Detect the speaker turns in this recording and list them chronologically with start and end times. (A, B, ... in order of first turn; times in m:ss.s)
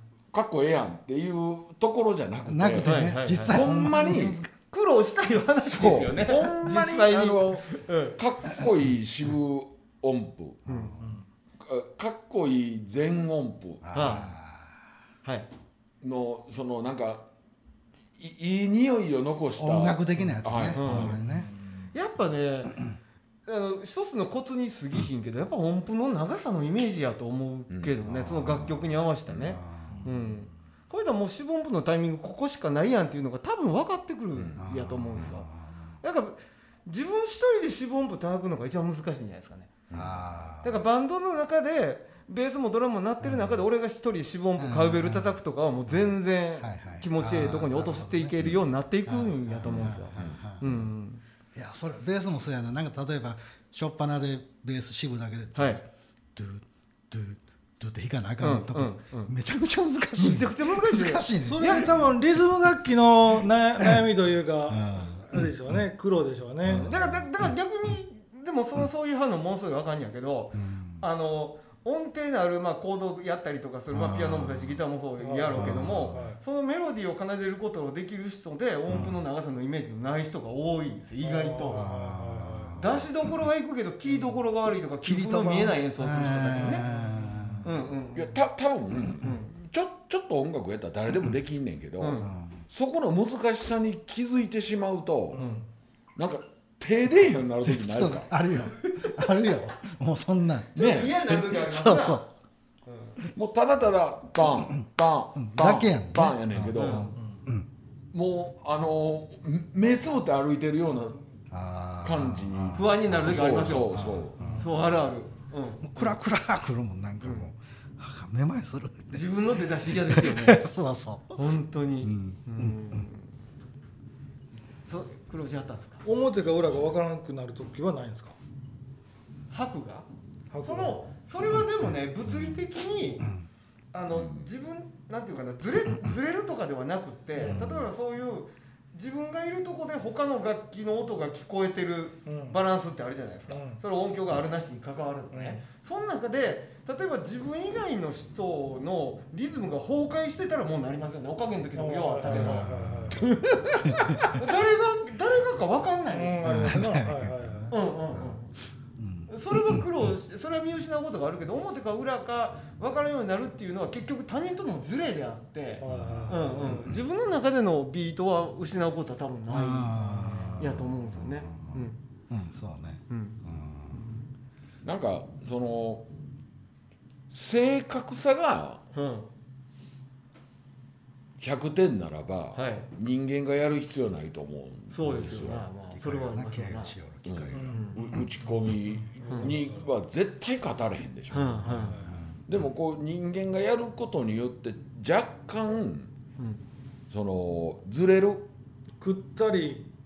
0:00.3-0:04.4 A
0:02.5-0:04.4 B
0:02.8-0:08.2 C
0:05.6-0:10.6 A
0:10.7-0:11.0 C
0:10.7-0:11.1 B
0:11.6-0:14.2 A
0:13.8-0:14.7 B
0:13.9-0:14.3 C
0:16.0-0:17.2 A
0:18.2-0:21.2 A
0:19.6-0:21.5 B
0:20.7-0:21.2 C
0:21.2-0:21.5 D
0:21.9-0:22.8 C
0:23.4-0:35.5 C
0:27.7-0:28.0 A
0:28.0-0:29.9 B
0:34.3-0:34.6 A
0:34.6-0:35.8 B
0:36.0-0:39.7 C
0:39.9-0:40.8 B
0:40.6-0:51.2 C
0:43.2-0:43.6 B
0:44.6-0:45.4 B
0:45.9-0:50.9 B
0:49.7-0:50.4 A
0:51.5-1:01.9 B
0:55.5-0:55.8 C
0:58.4-0:59.3 C
1:00.2-1:01.9 C
1:01.4-1:06.9 D
1:03.8-1:04.0 B
1:04.7-1:05.5 B
1:06.7-1:07.5 B
1:06.8-1:21.9 C
1:10.5-1:11.0 B
1:13.9-1:14.8 B
1:15.2-1:16.4 D
1:15.5-1:16.2 B
1:18.9-1:19.2 B
1:21.2-1:22.8 D
1:21.7-1:23.0 B
1:22.8-1:26.8 C
1:25.0-1:27.7 B
1:26.6-1:27.6 D
1:27.6-1:28.4 C
1:28.1-1:35.4 A
1:29.2-1:29.5 C
1:32.0-1:32.3 C
1:32.2-1:32.6 B
1:35.3-1:35.6 D
1:35.4-1:35.6 C
1:36.2-1:38.3 A
1:37.6-1:42.2 B
1:40.7-1:42.2 C
1:40.8-1:41.2 A
1:42.8-1:43.2 C
1:43.3-1:47.1 A
1:45.4-1:47.7 B
1:46.7-1:47.1 C
1:48.1-1:51.2 A
1:51.5-1:54.7 B
1:52.0-1:54.4 A
1:52.7-1:54.0 C
1:54.4-1:54.7 D
1:54.5-1:56.1 C
1:55.8-1:59.3 B
1:57.2-1:57.5 C
1:59.1-2:00.6 C
1:59.8-2:01.4 B
2:01.4-2:03.2 C
2:02.0-2:03.0 B
2:04.9-2:06.0 C
2:06.0-2:08.3 D
2:09.5-2:10.1 C
2:10.5-2:11.0 D
2:10.6-2:13.3 C
2:13.9-2:36.7 C
2:14.1-2:14.4 A
2:17.4-2:17.8 B
2:22.2-2:22.6 D
2:23.5-2:23.8 D
2:25.3-2:25.6 D
2:31.8-2:33.3 D
2:32.2-2:33.3 B
2:33.9-2:34.2 B
2:36.1-2:37.8 D
2:36.4-2:38.4 B
2:37.7-2:38.5 C
2:39.0-2:40.1 B
2:39.3-2:50.0 C
2:45.8-2:46.8 D
2:45.8-2:47.0 B
2:49.5-2:51.8 B
2:50.1-2:50.4 D
2:50.6-2:52.0 C
2:52.3-2:54.0 B
2:53.1-2:53.4 C
2:54.8-2:56.0 A
2:57.3-2:58.8 A
2:58.9-2:59.3 C
3:01.4-3:05.6 A
3:02.5-3:02.9 C
3:04.9-3:06.9 C
3:05.9-3:08.2 B
3:07.2-3:11.9 A
3:07.5-3:07.9 D
3:07.7-3:08.0 C
3:09.2-3:09.8 D
3:11.3-3:12.0 C
3:11.7-3:12.1 D
3:12.0-3:12.3 B
3:12.5-3:16.1 A
3:17.1-3:18.5 A
3:19.0-3:19.8 D